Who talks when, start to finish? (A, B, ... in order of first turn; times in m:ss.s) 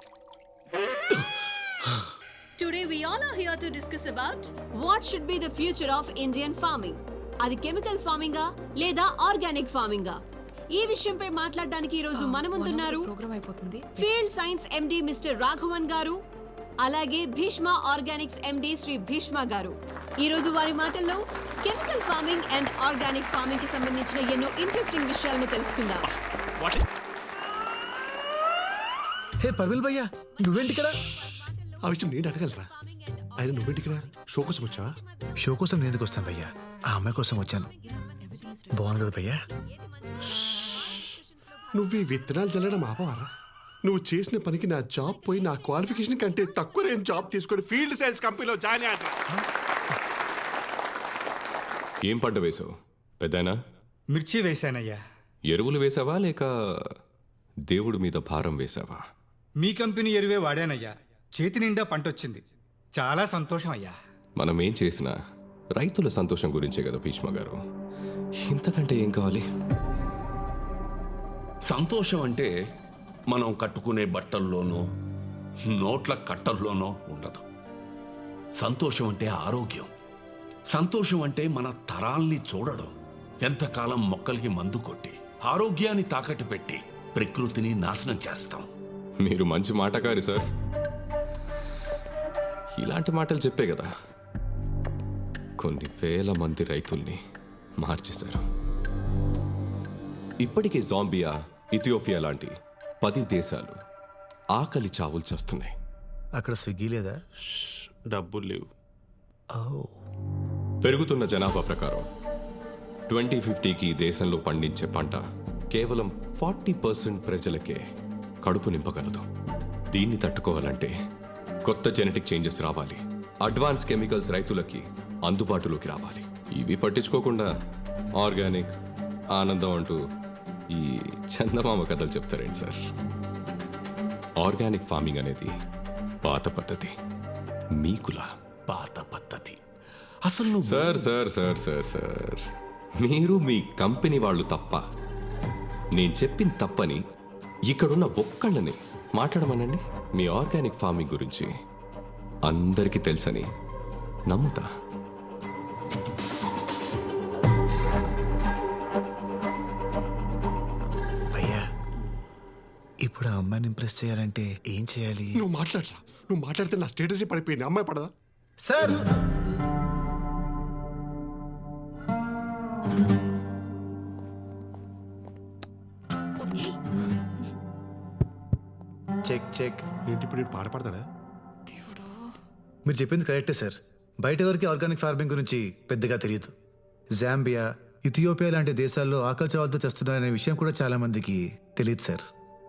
0:02.6-0:10.2 A
0:10.7-0:13.1 A
0:12.1-0:14.2 B
0:14.0-0:16.2 A
0:16.8-0:26.1 A
0:29.4-0:31.1 C
0:30.5-0:35.3 A
0:31.8-0:32.7 D
0:33.4-0:34.9 D
0:35.4-0:37.7 C
0:37.3-0:42.4 A
0:38.7-0:39.4 C
0:41.8-0:43.3 D
0:43.8-0:48.0 D
0:45.0-0:47.5 A
0:52.0-0:52.7 E
0:53.2-0:53.5 E
0:54.1-0:55.0 F
0:55.5-0:56.9 E
0:57.7-0:59.0 E
0:59.6-1:02.4 F
1:03.0-1:03.9 F
1:04.4-1:05.1 E
1:05.7-1:07.6 E
1:08.4-1:09.4 E
1:11.7-1:12.5 G
1:13.3-1:14.8 G
1:15.7-1:17.4 G
1:18.6-1:19.9 G
1:20.7-1:22.9 G
1:23.4-1:28.7 G
1:29.2-1:30.4 E
1:32.8-1:33.9 E
1:35.6-1:37.2 E
1:37.8-1:38.4 E
1:40.4-1:42.5 E
1:43.0-1:43.7 E
1:44.5-1:45.7 E
1:46.4-1:47.2 C
1:49.5-1:50.0 C
1:50.8-1:52.0 E
1:53.1-1:55.2 E
1:55.7-1:57.8 E
1:58.4-1:59.2 E
1:59.9-2:00.9 E
2:01.6-2:07.5 E
2:08.2-2:08.7 E
2:09.3-2:10.0 E
2:10.7-2:12.8 E
2:14.4-2:15.5 E
2:16.2-2:16.9 E
2:17.8-2:18.3 E
2:18.7-2:19.6 G
2:20.3-2:20.9 G
2:20.6-2:22.4 E
2:23.0-2:24.8 E
2:25.9-2:27.0 E
2:27.7-2:31.5 E
2:32.4-2:33.4 E
2:34.3-2:34.7 E
2:41.3-2:41.6 C
2:43.0-2:45.4 C
2:45.4-2:48.1 D
2:48.6-2:49.0 C
2:59.2-2:59.8 C
3:00.1-3:01.0 D
3:01.7-3:02.3 B
3:02.8-3:06.5 C
3:07.2-3:12.2 C